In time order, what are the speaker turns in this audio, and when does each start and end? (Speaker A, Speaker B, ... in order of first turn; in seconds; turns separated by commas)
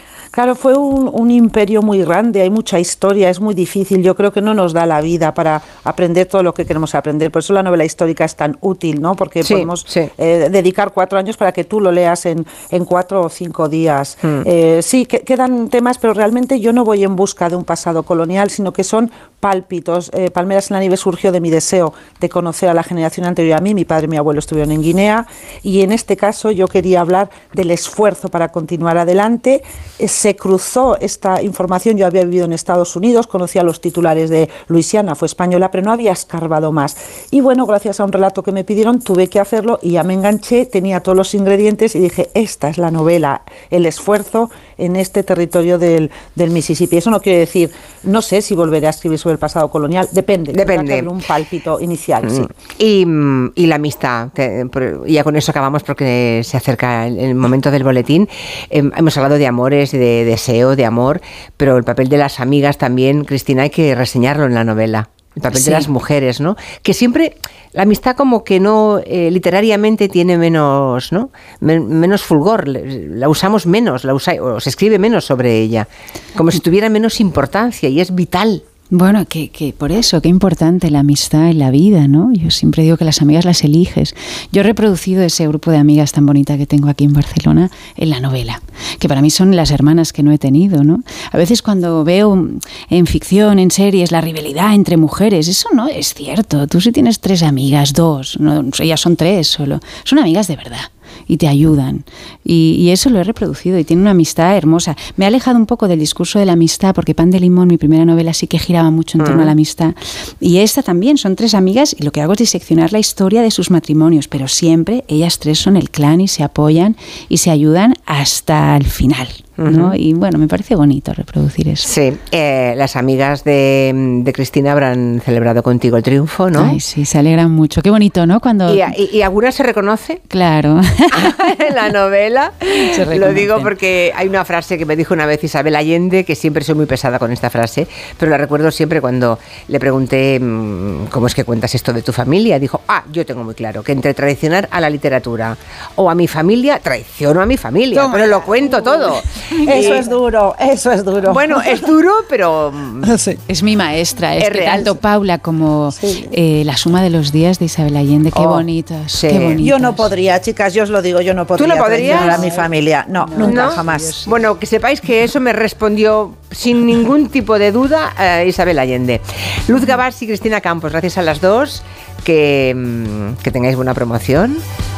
Speaker A: 0.3-52.5, Speaker B: 9.4-10.1, Speaker B: 50.5-51.1, Speaker B: 52.2-78.6, Speaker C: 65.5-65.9, Speaker C: 78.9-121.9, Speaker B: 109.2-109.5, Speaker B: 119.6-119.9, Speaker B: 121.8-126.8, Speaker C: 126.5-128.9, Speaker B: 128.7-130.2, Speaker C: 130.3-131.5, Speaker B: 131.1-150.1, Speaker C: 132.7-133.7, Speaker C: 147.9-150.0, Speaker A: 149.6-151.9, Speaker B: 151.2-153.2, Speaker A: 153.0-153.4, Speaker C: 153.5-160.1, Speaker B: 154.4-155.0, Speaker A: 155.9-156.3, Speaker B: 158.3-159.6, Speaker A: 159.6-164.2, Speaker B: 161.6-162.5, Speaker C: 162.0-164.3, Speaker B: 163.4-174.6